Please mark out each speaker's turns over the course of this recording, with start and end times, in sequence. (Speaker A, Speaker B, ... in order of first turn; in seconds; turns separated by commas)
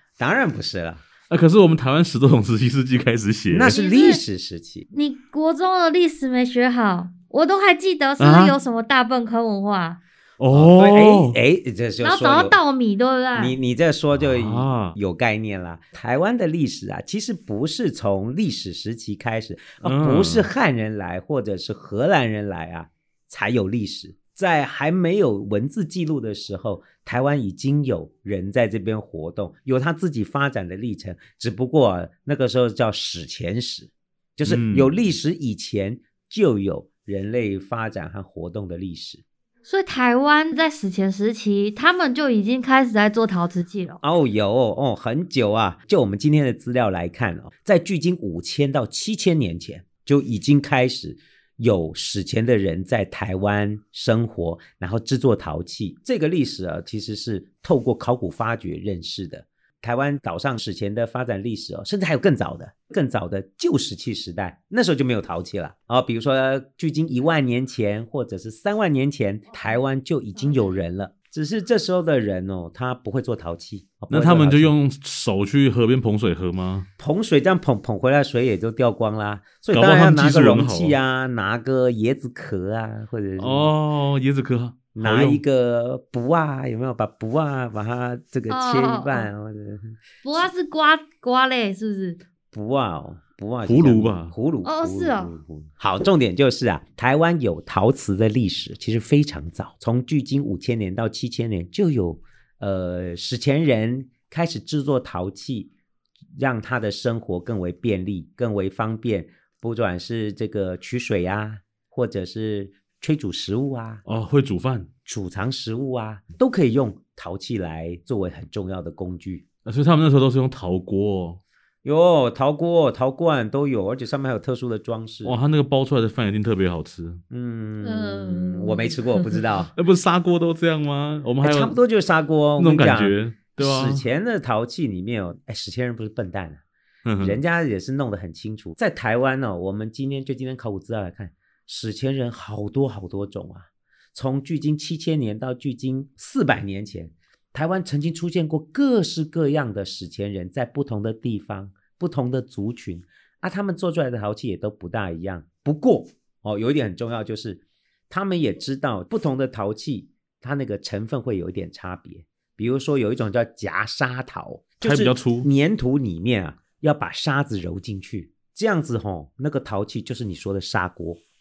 Speaker A: 0.2-1.0, Speaker B: 1.3-3.8, Speaker A: 3.5-4.9, Speaker C: 3.7-4.2, Speaker C: 4.9-10.0, Speaker B: 8.2-8.6, Speaker B: 10.4-11.4, Speaker A: 10.5-12.6, Speaker C: 12.0-13.6, Speaker A: 13.3-39.2, Speaker B: 14.2-14.9, Speaker B: 19.8-20.5, Speaker B: 34.4-34.9, Speaker C: 39.6-44.0, Speaker A: 44.0-74.7, Speaker B: 74.1-76.9, Speaker A: 77.0-83.7, Speaker B: 79.7-81.0, Speaker B: 83.4-85.4, Speaker A: 85.0-90.0, Speaker C: 88.5-89.3, Speaker C: 90.2-92.2, Speaker A: 92.5-105.7, Speaker B: 93.6-94.3, Speaker C: 94.6-95.3, Speaker A: 106.3-114.0, Speaker B: 114.0-114.9, Speaker A: 115.0-119.4, Speaker B: 119.6-121.4, Speaker A: 121.8-125.4, Speaker B: 125.2-127.2, Speaker A: 127.3-129.7, Speaker C: 127.8-129.4, Speaker B: 129.8-131.8, Speaker A: 131.4-136.6, Speaker B: 132.6-134.0, Speaker B: 137.0-137.4, Speaker A: 137.2-171.2, Speaker B: 164.8-165.5